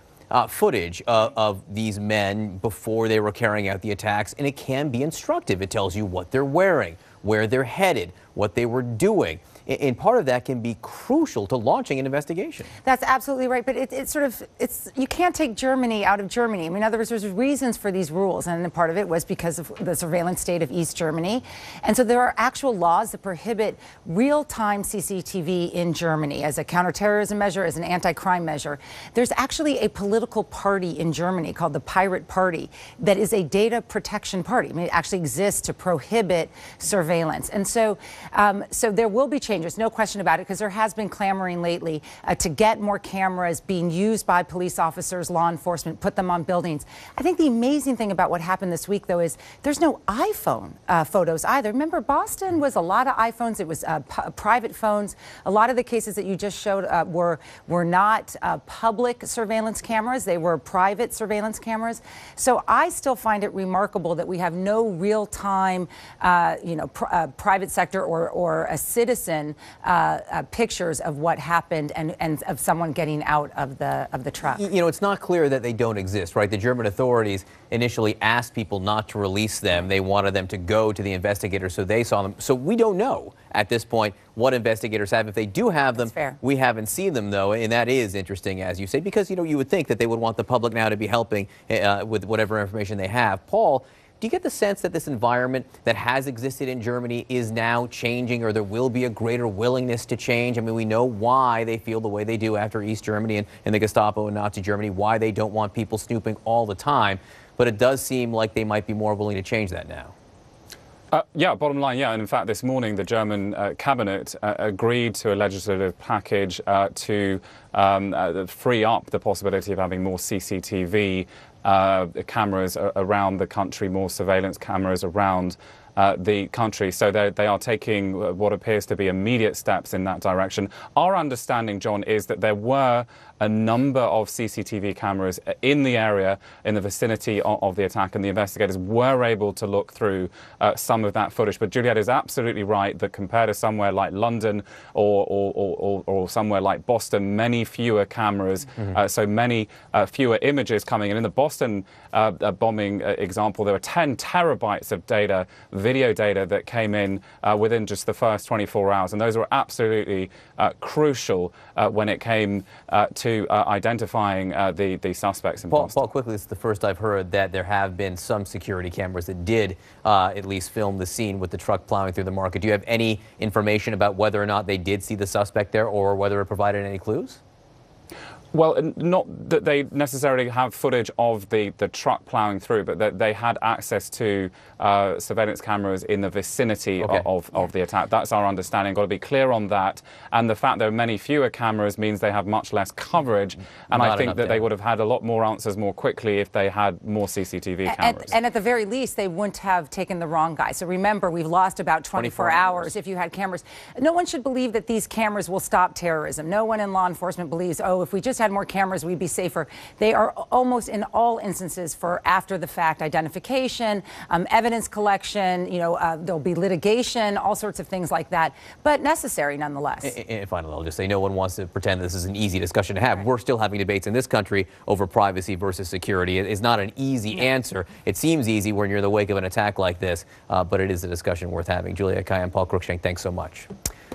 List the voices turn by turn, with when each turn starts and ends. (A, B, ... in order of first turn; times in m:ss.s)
0:00.3-0:12.7 A
0:12.8-1:14.6 B
1:14.5-1:50.1 A
1:26.1-1:26.4 B
1:51.1-2:46.0 C
2:45.7-2:57.4 A
2:58.5-3:18.3 C
3:07.0-3:07.3 A
3:13.9-3:14.7 A
3:17.8-3:40.1 B
3:22.1-3:22.9 A
3:40.0-3:53.7 A